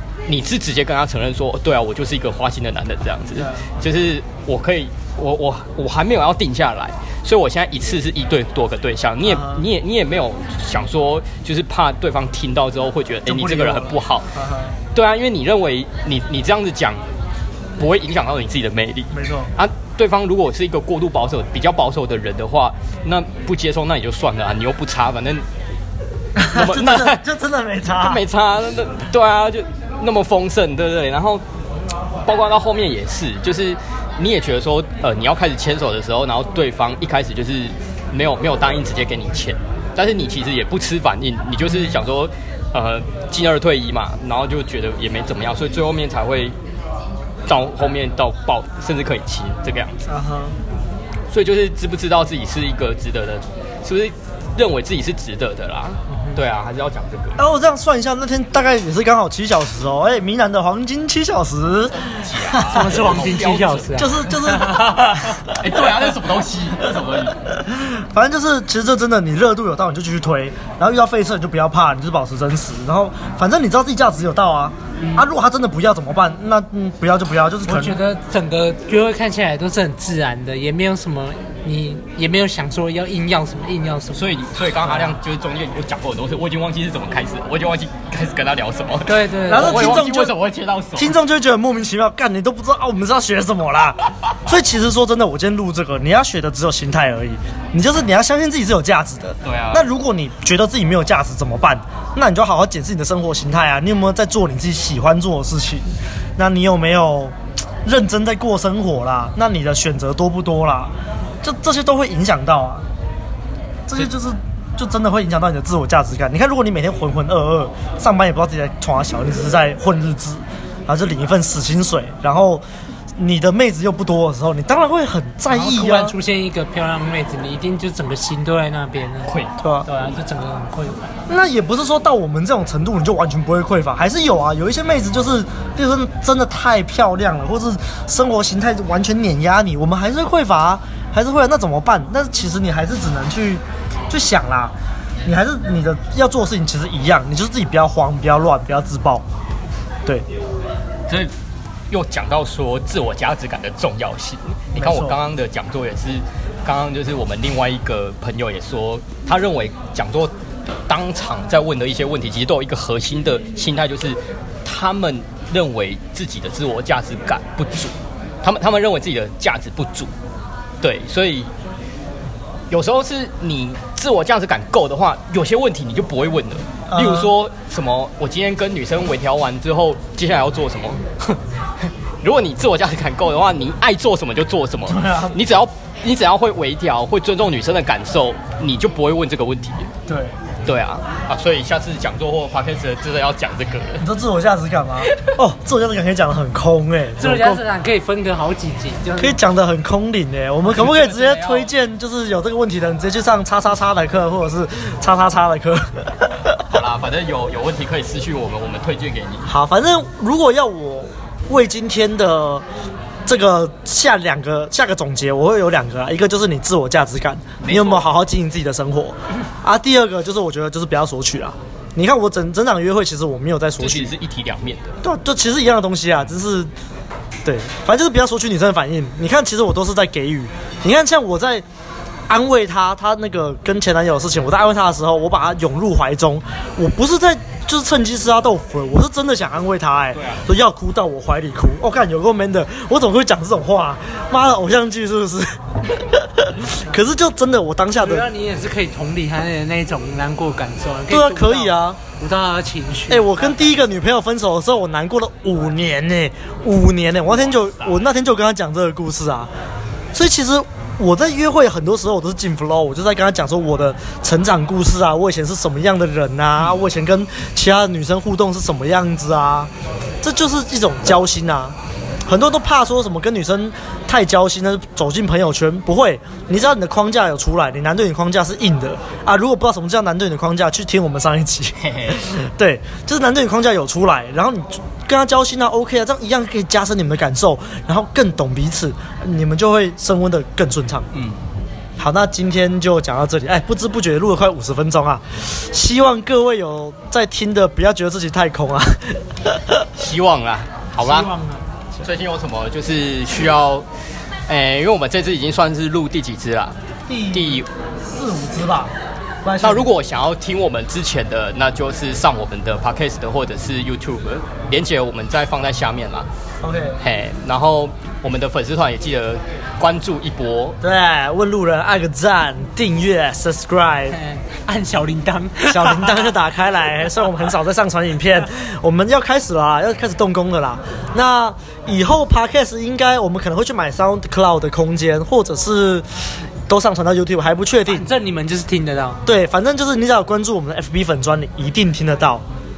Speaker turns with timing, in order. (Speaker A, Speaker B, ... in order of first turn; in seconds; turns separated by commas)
Speaker A: 0.3-14.3, Speaker B: 3.4-3.7, Speaker B: 9.3-9.6, Speaker B: 13.3-14.8, Speaker A: 14.9-17.0, Speaker A: 17.8-25.4, Speaker B: 19.1-19.5, Speaker B: 26.4-28.2, Speaker A: 26.5-27.2, Speaker A: 27.9-31.4, Speaker A: 32.2-46.5, Speaker A: 47.5-50.0, Speaker B: 50.1-50.5, Speaker A: 51.3-57.4, Speaker B: 57.4-63.4, Speaker A: 62.0-64.1, Speaker C: 62.7-65.0, Speaker B: 64.0-66.0, Speaker A: 65.4-67.4, Speaker B: 67.4-78.0, Speaker A: 75.0-75.3, Speaker C: 77.6-84.3, Speaker A: 84.1-91.1, Speaker C: 84.8-85.1, Speaker C: 89.0-90.0, Speaker B: 89.5-90.3, Speaker B: 91.0-112.9, Speaker A: 99.4-99.9, Speaker B: 113.9-122.6, Speaker B: 123.2-126.2, Speaker C: 125.5-129.3, Speaker B: 129.6-129.9, Speaker C: 129.9-131.1, Speaker B: 131.3-144.7, Speaker B: 145.2-149.2, Speaker A: 151.9-160.3, Speaker B: 154.8-155.2, Speaker A: 160.9-170.1, Speaker A: 170.8-171.5, Speaker A: 172.7-181.4, Speaker B: 176.9-177.3, Speaker A: 182.2-189.9, Speaker B: 184.9-185.4, Speaker B: 190.1-190.4, Speaker A: 190.6-194.1, Speaker B: 194.0-197.6, Speaker A: 195.1-195.3, Speaker C: 197.2-199.4, Speaker B: 199.2-206.6, Speaker A: 200.6-201.7, Speaker A: 206.6-209.5, Speaker B: 209.5-212.6, Speaker B: 213.3-224.1, Speaker A: 217.6-218.1, Speaker A: 223.8-224.9, Speaker B: 225.0-226.7, Speaker B: 227.4-231.6, Speaker B: 232.3-248.3, Speaker A: 240.1-240.4, Speaker C: 248.0-253.7, Speaker B: 251.1-252.0, Speaker B: 253.1-259.5, Speaker A: 257.3-258.0, Speaker B: 260.1-269.7, Speaker A: 266.6-266.8, Speaker B: 270.2-291.1, Speaker A: 281.8-282.3, Speaker A: 291.1-291.4, Speaker B: 292.0-299.9, Speaker A: 300.0-301.3, Speaker C: 301.0-301.6, Speaker A: 302.0-303.9, Speaker A: 304.5-306.8, Speaker B: 307.1-308.9, Speaker A: 307.3-307.7, Speaker B: 309.4-309.9, Speaker A: 309.6-316.3, Speaker B: 316.6-317.0, Speaker A: 317.0-320.8, Speaker B: 320.8-324.2, Speaker C: 324.1-326.3, Speaker B: 325.7-338.1, Speaker C: 337.9-339.2, Speaker B: 339.3-342.4